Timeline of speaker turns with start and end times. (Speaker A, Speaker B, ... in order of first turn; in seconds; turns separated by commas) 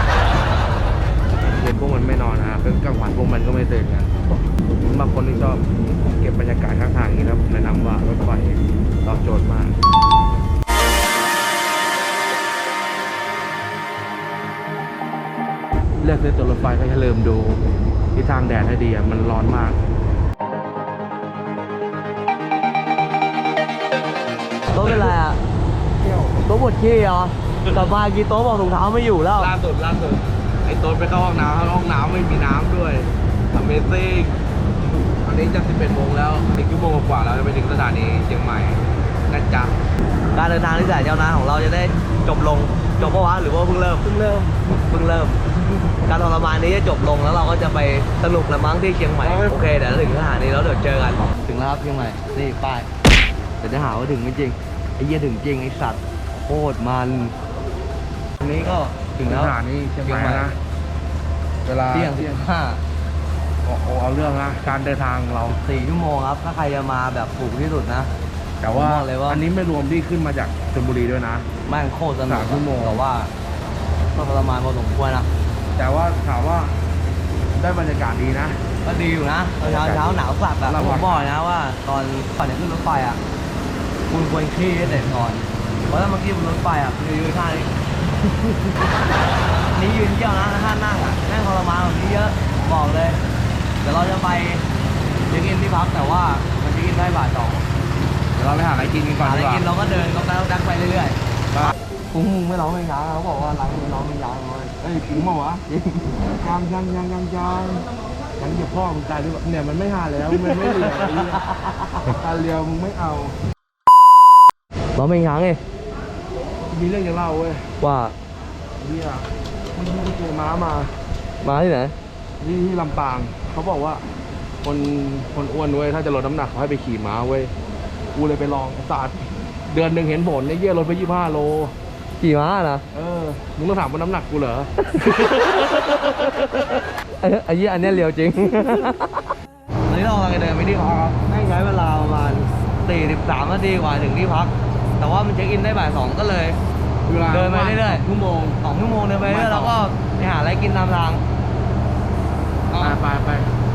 Speaker A: 1.3-9.8, Speaker A: 16.0-17.6, Speaker A: 18.1-19.8, Speaker B: 24.7-25.4, Speaker A: 26.0-26.4, Speaker B: 26.4-29.5, Speaker A: 29.4-34.4, Speaker A: 35.1-39.8, Speaker B: 40.3-44.1, Speaker A: 44.0-44.7, Speaker B: 44.7-45.4, Speaker B: 46.0-52.9, Speaker A: 49.2-49.5, Speaker B: 53.6-57.3, Speaker B: 58.4-60.5, Speaker A: 59.2-60.6, Speaker A: 61.6-62.4, Speaker B: 61.9-62.8, Speaker A: 63.6-65.6, Speaker B: 65.6-68.1, Speaker A: 68.6-71.5, Speaker B: 68.7-69.4, Speaker B: 71.7-73.3, Speaker A: 72.3-73.0, Speaker B: 74.1-75.3, Speaker A: 75.7-76.7, Speaker A: 77.5-78.6, Speaker B: 78.8-83.2, Speaker A: 79.6-81.3, Speaker B: 84.1-87.7, Speaker B: 89.7-93.2, Speaker B: 93.8-94.6, Speaker B: 95.3-97.7, Speaker A: 98.3-99.7, Speaker B: 99.2-105.0, Speaker A: 104.8-105.6, Speaker B: 105.7-106.1, Speaker A: 106.4-111.4, Speaker B: 110.3-112.1, Speaker A: 112.0-113.3, Speaker B: 114.9-115.6, Speaker A: 116.7-117.7, Speaker B: 117.8-118.1, Speaker A: 118.8-120.9, Speaker B: 121.4-121.9, Speaker A: 122.4-124.0, Speaker A: 124.6-127.5, Speaker A: 128.1-131.7, Speaker B: 132.2-132.8, Speaker A: 132.9-135.5, Speaker B: 134.9-135.7, Speaker B: 137.1-139.3, Speaker B: 139.8-146.6, Speaker A: 147.1-148.1, Speaker B: 147.3-151.2, Speaker A: 149.2-149.8, Speaker B: 152.7-153.0, Speaker A: 152.8-153.5